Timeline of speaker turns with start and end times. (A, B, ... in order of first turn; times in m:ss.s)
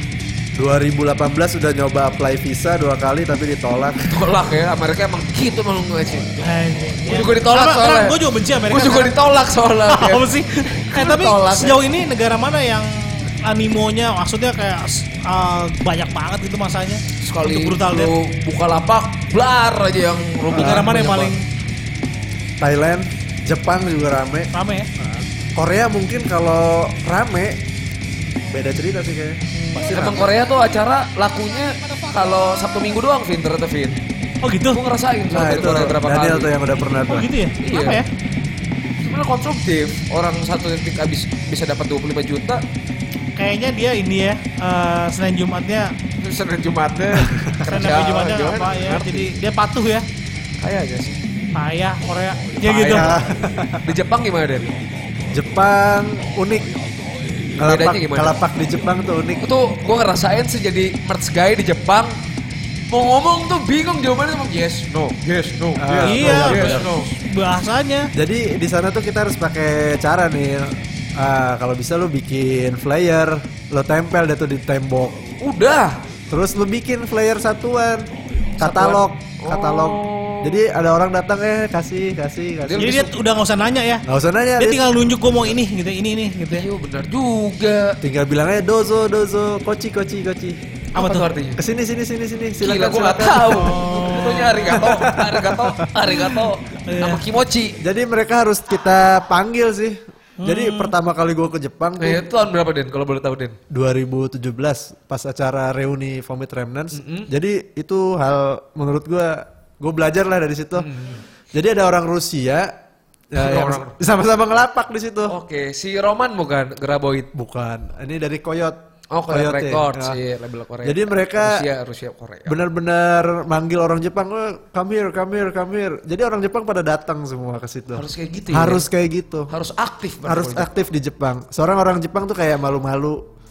0:00.5-0:04.2 A
0:04.0-0:06.5 B
0:06.4-0:09.1 C
0:07.0-0:11.8 B
0:09.9-0:18.1 C
0:17.2-0:21.3 B
0:20.5-0:20.9 A
0:20.5-0:21.4 C
0:22.6-0:27.6 A
0:24.5-0:24.9 C
0:28.5-0:30.3 A
0:29.5-0:30.1 C
0:29.9-0:34.0 B
0:34.4-0:34.8 C
0:34.7-0:36.5 B
0:35.3-0:37.3 A
0:37.1-0:38.1 C
0:37.6-0:38.0 B
0:39.0-0:42.6 B
0:43.4-0:46.0 C
0:46.2-0:49.3 B
0:47.2-0:47.5 A
0:47.6-0:50.0 C
0:50.6-0:51.2 B
0:51.5-0:53.1 C
0:52.6-0:53.3 B
0:52.8-0:53.9 A
0:53.8-0:54.7 B
0:55.3-0:56.7 A
0:57.6-0:58.4 B
0:57.6-0:59.4 A
0:59.4-1:02.2 B
1:02.9-1:07.1 B
1:05.8-1:07.0 A
1:06.0-1:08.1 C
1:08.1-1:15.3 A
1:15.4-1:16.0 B
1:16.3-1:23.0 A
1:18.6-1:20.6 B
1:22.6-1:23.1 B
1:22.8-1:24.0 C
1:24.0-1:24.8 A
1:24.6-1:26.7 C
1:26.5-1:28.0 B
1:28.0-1:30.6 A
1:30.9-1:31.6 B
1:31.0-1:31.2 C
1:31.6-1:33.6 A
1:32.6-1:37.8 B
1:33.5-1:34.8 C
1:34.7-1:35.9 A
1:36.9-1:37.2 C
1:37.8-1:42.2 A
1:40.4-1:40.9 C
1:42.0-1:43.6 B
1:43.7-1:50.9 A
1:46.9-1:47.3 B
1:50.8-1:51.2 B
1:51.5-1:52.7 A
1:53.3-1:55.4 A
1:53.4-1:53.9 B
1:55.3-1:57.3 B
1:57.3-2:00.2 A
1:59.1-2:02.6 B
2:00.8-2:01.6 A
2:02.4-2:09.5 A
2:07.9-2:08.9 B
2:09.5-2:10.7 B
2:10.2-2:13.2 A